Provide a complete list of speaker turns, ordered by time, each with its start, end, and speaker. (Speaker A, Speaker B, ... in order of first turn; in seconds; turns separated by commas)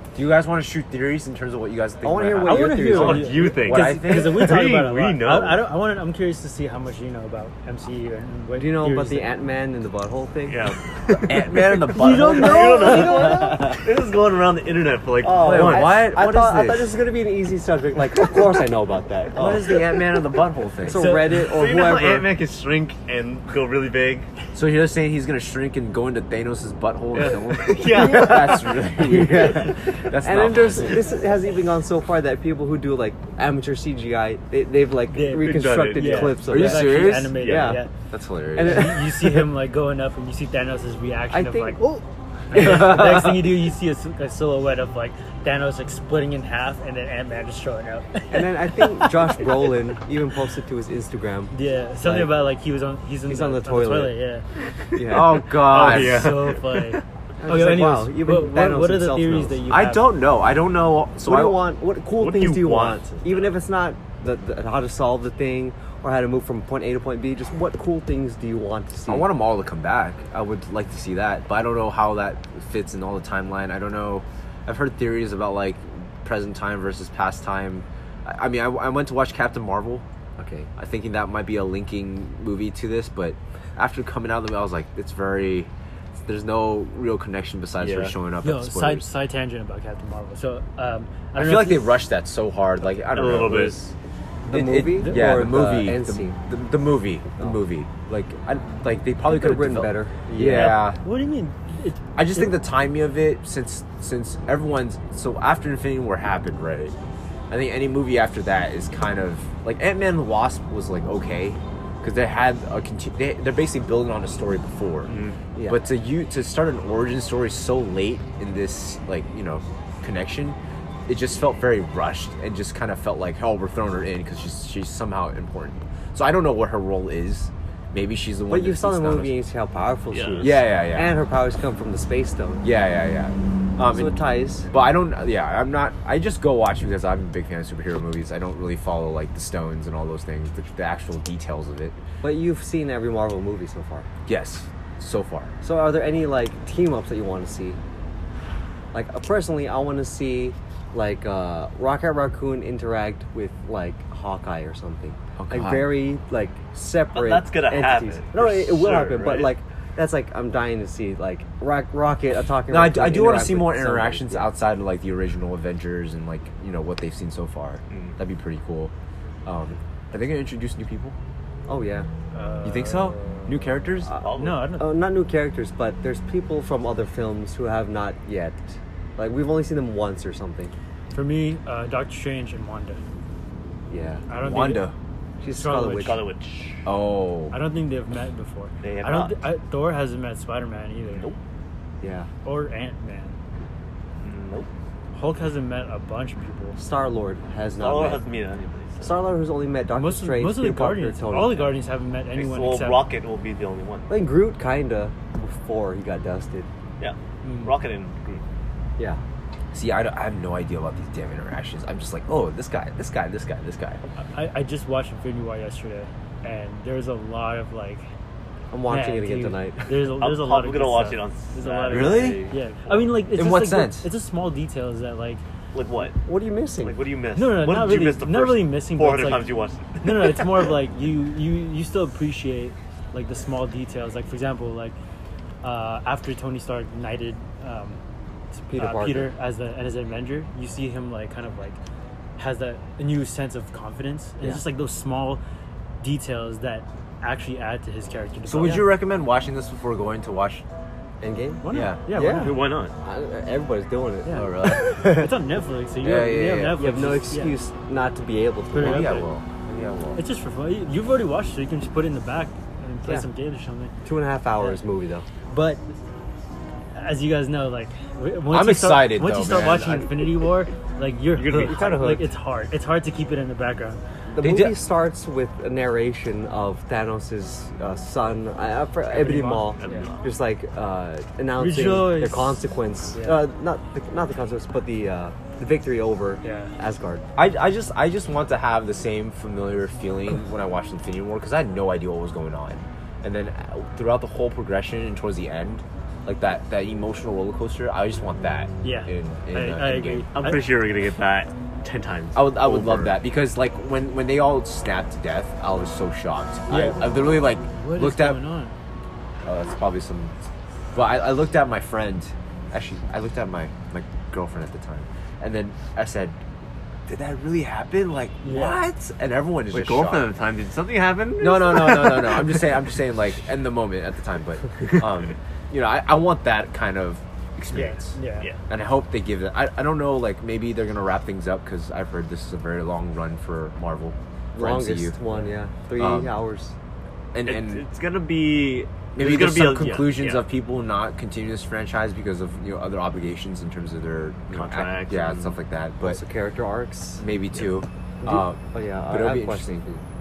Speaker A: 0.1-4.6, Speaker B: 2.0-3.6, Speaker C: 2.4-9.3, Speaker D: 2.7-5.6, Speaker B: 8.6-10.7, Speaker D: 10.4-15.9, Speaker A: 11.2-12.8, Speaker C: 11.9-13.7, Speaker B: 12.1-13.8, Speaker B: 15.2-19.8, Speaker A: 15.3-16.9, Speaker A: 19.3-21.2, Speaker B: 20.8-22.3, Speaker C: 20.9-21.6, Speaker D: 21.3-24.3, Speaker A: 24.5-31.1, Speaker D: 27.1-28.8, Speaker B: 27.9-37.9, Speaker C: 35.1-37.9, Speaker D: 35.2-36.5, Speaker A: 36.5-37.5, Speaker D: 37.3-37.8, Speaker A: 38.1-38.9, Speaker B: 38.5-39.5, Speaker C: 38.6-41.9, Speaker B: 41.3-43.0, Speaker C: 42.5-49.7, Speaker A: 42.5-43.4, Speaker B: 48.3-52.3, Speaker C: 51.5-54.4, Speaker B: 53.3-54.2, Speaker D: 54.9-57.0, Speaker B: 54.9-55.5, Speaker A: 55.0-56.5, Speaker C: 55.7-60.1, Speaker B: 57.4-59.6, Speaker A: 59.7-61.6, Speaker B: 61.2-69.3, Speaker D: 62.1-63.5, Speaker A: 69.1-80.0, Speaker B: 80.4-80.7, Speaker A: 80.8-89.1, Speaker D: 87.8-88.1, Speaker C: 88.4-92.0, Speaker A: 91.3-93.9, Speaker D: 93.1-93.8, Speaker B: 94.4-96.4, Speaker A: 94.5-101.0, Speaker C: 94.9-95.3, Speaker B: 99.2-100.9, Speaker C: 100.5-102.6, Speaker A: 102.2-107.0, Speaker A: 107.5-129.3, Speaker D: 115.1-115.4, Speaker B: 115.5-115.8, Speaker B: 128.5-132.6, Speaker D: 130.1-130.6, Speaker A: 130.4-131.2, Speaker A: 132.6-142.0, Speaker B: 133.9-134.7, Speaker B: 142.2-144.1, Speaker A: 144.2-145.5, Speaker B: 145.6-147.8, Speaker B: 148.9-164.5, Speaker A: 155.4-156.0, Speaker D: 157.1-159.6, Speaker A: 162.7-168.9, Speaker D: 167.9-168.2, Speaker A: 169.4-171.2, Speaker B: 171.7-172.1, Speaker C: 172.3-173.7, Speaker A: 172.6-174.1, Speaker B: 174.1-180.7, Speaker D: 174.2-174.6, Speaker C: 174.3-174.9, Speaker C: 181.1-183.0, Speaker B: 183.9-184.2, Speaker C: 184.3-184.9, Speaker A: 184.4-184.9, Speaker B: 185.4-186.2, Speaker C: 185.5-186.2, Speaker D: 185.8-186.9, Speaker A: 186.8-187.6, Speaker C: 187.5-191.3, Speaker D: 188.8-189.4, Speaker D: 191.1-191.4, Speaker B: 192.0-192.3, Speaker C: 192.4-193.3, Speaker D: 194.2-194.7, Speaker C: 195.1-196.8, Speaker B: 196.8-198.2, Speaker D: 197.8-199.2, Speaker B: 199.0-201.7, Speaker C: 199.9-203.0, Speaker D: 202.3-204.1, Speaker B: 204.1-206.7, Speaker D: 207.0-208.4, Speaker C: 207.4-207.7, Speaker A: 209.7-214.0, Speaker C: 214.2-218.1, Speaker B: 218.7-219.9, Speaker C: 218.9-225.4, Speaker D: 220.2-223.1, Speaker A: 221.9-222.4, Speaker A: 223.3-224.1, Speaker D: 225.7-226.2, Speaker B: 226.2-227.0, Speaker D: 226.8-230.7, Speaker C: 227.3-229.5, Speaker C: 230.0-235.0, Speaker C: 235.6-238.0, Speaker C: 238.6-241.8, Speaker B: 238.7-239.3, Speaker C: 242.4-245.4, Speaker C: 246.0-248.9, Speaker A: 248.4-250.6, Speaker B: 251.2-255.4, Speaker C: 251.6-252.6, Speaker A: 251.7-252.0, Speaker D: 252.2-252.9, Speaker C: 254.2-257.6, Speaker A: 254.3-254.9, Speaker A: 256.0-256.8, Speaker B: 256.8-259.2, Speaker C: 258.7-259.3, Speaker A: 258.8-260.2, Speaker C: 260.1-263.9, Speaker B: 264.0-265.3, Speaker C: 265.5-265.9, Speaker C: 266.9-274.0, Speaker A: 268.5-270.2, Speaker D: 271.3-272.2, Speaker B: 271.6-272.2, Speaker B: 274.3-287.2, Speaker A: 274.4-274.8, Speaker C: 279.1-280.1, Speaker D: 279.8-280.3, Speaker C: 281.6-282.6, Speaker C: 283.1-283.4, Speaker C: 286.4-286.7, Speaker A: 287.3-300.3, Speaker C: 298.8-300.6, Speaker D: 300.3-303.2, Speaker A: 302.3-308.4, Speaker C: 306.7-308.7, Speaker A: 309.4-310.3, Speaker A: 310.9-316.4, Speaker A: 317.1-320.3, Speaker C: 318.4-318.8, Speaker D: 319.7-322.8, Speaker A: 321.4-335.2, Speaker C: 327.7-328.5, Speaker B: 334.5-336.7, Speaker A: 335.9-336.3, Speaker A: 337.3-337.9, Speaker D: 337.4-340.4, Speaker A: 339.1-346.2, Speaker D: 344.5-345.6, Speaker B: 346.0-347.2, Speaker A: 347.2-349.8, Speaker B: 348.2-350.0